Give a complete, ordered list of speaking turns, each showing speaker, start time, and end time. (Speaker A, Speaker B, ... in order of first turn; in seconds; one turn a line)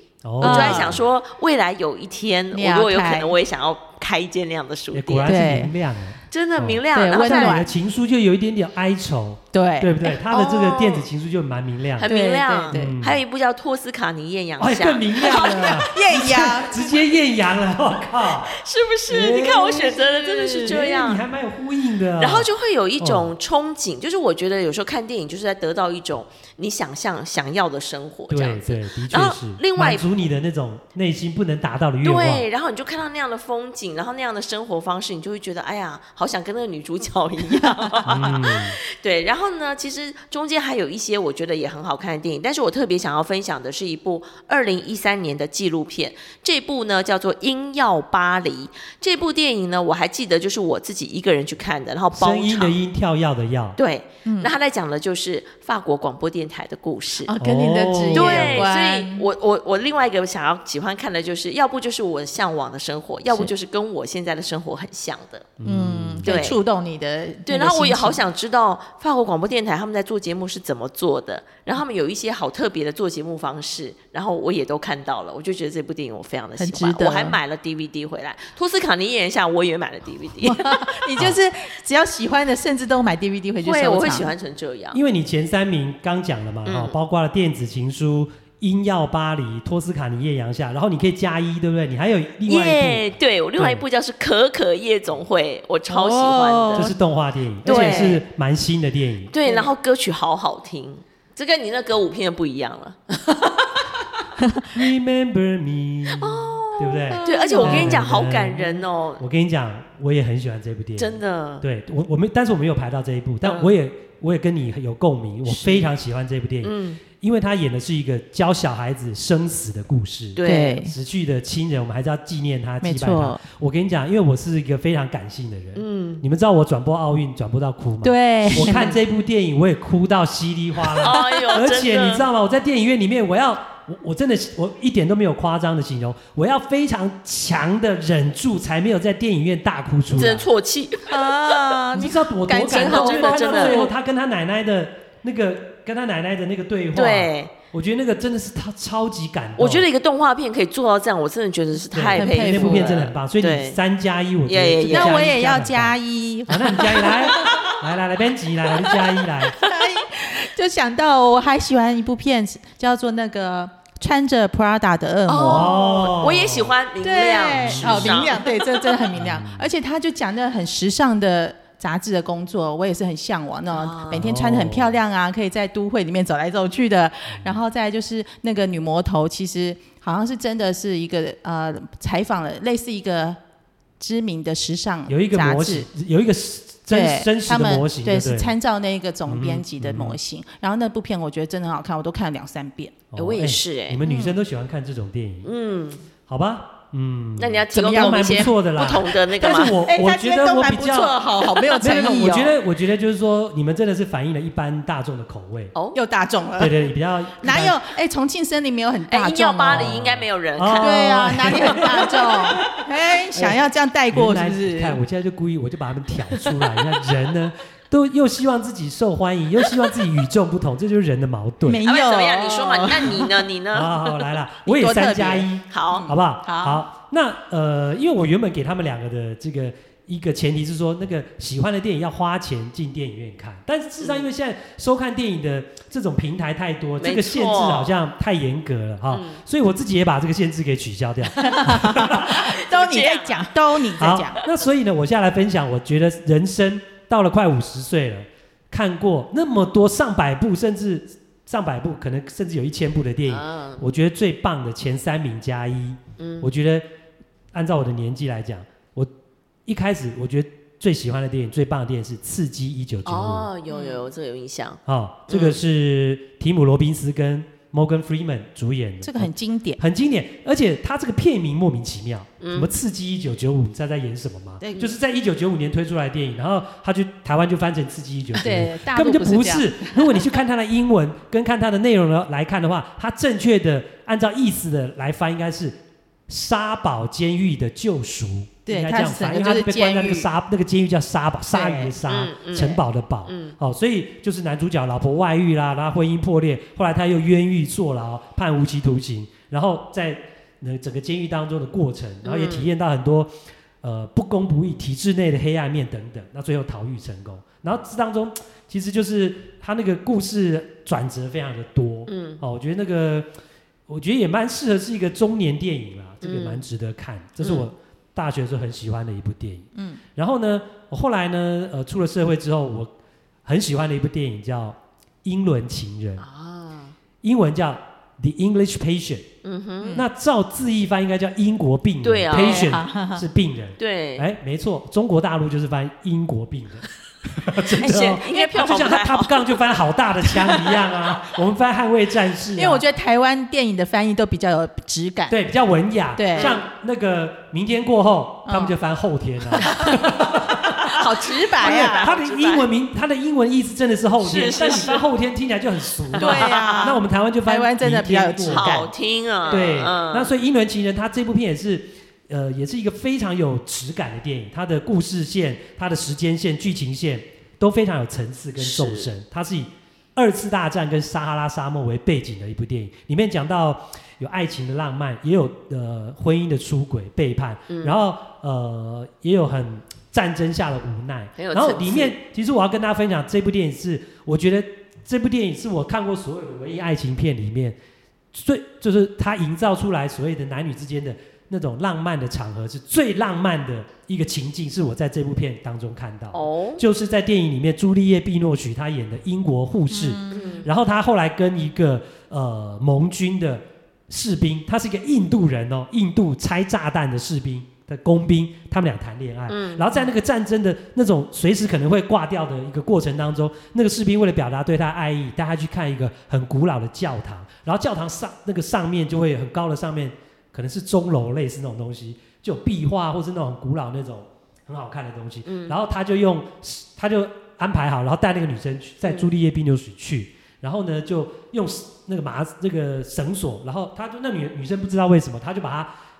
Speaker A: 0.2-1.0
Speaker B: 0.4-1.0
Speaker C: 0.4-5.3
Speaker B: 2.5-3.3
Speaker A: 4.9-12.1
Speaker B: 5.2-5.7
Speaker C: 6.3-7.6
Speaker B: 6.9-7.7
Speaker B: 9.5-10.5
Speaker C: 10.3-11.0
Speaker C: 12.0-15.9
Speaker B: 12.0-12.9
Speaker A: 12.7-13.2
Speaker A: 14.6-18.5
Speaker B: 15.2-16.9
Speaker C: 18.4-21.2
Speaker A: 19.1-19.9
Speaker B: 19.9-20.8
Speaker A: 20.6-22.5
Speaker C: 22.2-30.0
Speaker A: 23.0-23.3
Speaker A: 28.3-32.4
Speaker C: 32.0-52.8
Speaker B: 37.6-38.0
Speaker A: 38.0-38.8
Speaker A: 52.1-53.8
Speaker C: 53.8-57.3
Speaker B: 54.2-54.5
Speaker B: 57.2-59.2
Speaker A: 57.4-58.7
Speaker C: 58.1-65.5
Speaker A: 65.6-66.3
Speaker B: 65.6-68.2
Speaker C: 66.2-66.6
Speaker C: 67.5-81.0
Speaker B: 76.6-77.4
Speaker B: 80.4-84.3
Speaker C: 83.6-85.0
Speaker A: 84.9-93.8
Speaker C: 86.7-87.0
Speaker C: 92.5-96.9
Speaker B: 95.9-96.9
Speaker A: 96.7-99.3
Speaker C: 97.6-98.2
Speaker B: 97.7-98.0
Speaker C: 99.3-104.0
Speaker B: 99.4-99.7
Speaker A: 104.7-140.5
Speaker C: 106.1-109.2
Speaker B: 107.1-108.1
Speaker C: 111.0-111.6
Speaker C: 113.4-113.7
Speaker B: 115.5-115.8
Speaker C: 116.6-117.0
Speaker C: 120.3-120.8
Speaker B: 120.4-120.9
Speaker B: 122.8-123.4
Speaker C: 125.7-126.2
Speaker B: 128.0-129.0
Speaker C: 128.6-128.9
Speaker C: 131.0-132.2
Speaker C: 140.1-141.8
Speaker B: 141.1-143.9
Speaker A: 141.9-149.8
Speaker C: 142.7-143.8
Speaker C: 146.9-147.5
Speaker C: 149.6-153.8
Speaker A: 151.9-159.6
Speaker B: 152.1-153.0
Speaker C: 154.4-155.3
Speaker B: 154.9-157.7
Speaker B: 158.9-165.8
Speaker C: 165.3-168.5
Speaker A: 165.4-166.7
Speaker B: 167.0-183.4
Speaker A: 167.6-168.3
Speaker A: 169.1-169.7
Speaker C: 173.7-174.3
Speaker A: 174.1-175.0
Speaker A: 177.3-177.6
Speaker B: 184.0-185.9
Speaker A: 185.1-188.5
Speaker B: 186.9-192.9
Speaker A: 189.2-190.2
Speaker A: 193.1-195.5
Speaker C: 193.2-194.0
Speaker B: 194.0-194.4
Speaker C: 195.4-196.0
Speaker A: 196.3-205.7
Speaker C: 197.4-199.8
Speaker B: 197.7-198.5
Speaker B: 199.6-202.6
Speaker B: 205.9-206.8
Speaker A: 206.6-207.8
Speaker B: 207.4-210.0
Speaker C: 209.1-212.1
Speaker A: 209.7-212.8
Speaker B: 210.8-215.0
Speaker A: 213.3-213.6
Speaker A: 214.1-221.8
Speaker B: 221.6-223.5
Speaker C: 221.8-224.1
Speaker A: 223.7-242.4
Speaker B: 224.6-226.8
Speaker C: 225.7-226.1
Speaker C: 237.0-237.9
Speaker C: 239.1-239.4
Speaker B: 241.4-244.4
Speaker C: 242.0-243.5
Speaker A: 244.0-256.8
Speaker C: 253.3-253.8
Speaker C: 256.2-256.5
Speaker A: 257.5-259.1
Speaker A: 259.6-263.5
Speaker C: 263.0-265.6
Speaker B: 263.7-264.1
Speaker A: 264.9-285.8
Speaker B: 269.0-269.8
Speaker C: 272.4-272.7
Speaker B: 274.6-274.9
Speaker B: 278.4-280.2
Speaker A: 286.3-313.3
Speaker B: 288.7-290.3
Speaker B: 291.5-291.9
Speaker C: 292.0-293.6
Speaker C: 302.2-302.7
Speaker C: 312.1-312.4
Speaker A: 313.9-322.9
Speaker C: 316.2-316.6
Speaker C: 317.4-317.7
Speaker A: 323.4-326.2
Speaker C: 326.2-326.9
Speaker A: 327.2-329.3
Speaker C: 329.4-330.0
Speaker A: 329.9-342.8
Speaker C: 332.0-332.8
Speaker B: 332.3-333.2
Speaker C: 333.8-334.3
Speaker C: 337.7-339.6
Speaker B: 338.1-338.6
Speaker C: 340.4-340.8
Speaker B: 342.6-345.4
Speaker A: 345.3-350.9
Speaker B: 346.1-346.6
Speaker B: 348.4-348.7
Speaker B: 349.6-350.1
Speaker C: 349.6-352.7
Speaker B: 350.7-352.1
Speaker A: 351.6-358.9
Speaker C: 354.2-355.0
Speaker C: 356.1-357.0
Speaker B: 356.2-358.9
Speaker C: 358.5-360.3
Speaker A: 359.5-387.8
Speaker C: 368.6-369.1
Speaker C: 377.7-377.9
Speaker C: 381.4-382.1
Speaker A: 388.3-435.9
Speaker C: 396.3-396.8
Speaker B: 399.9-400.6
Speaker C: 400.3-400.7
Speaker C: 409.5-409.9
Speaker C: 425.4-425.8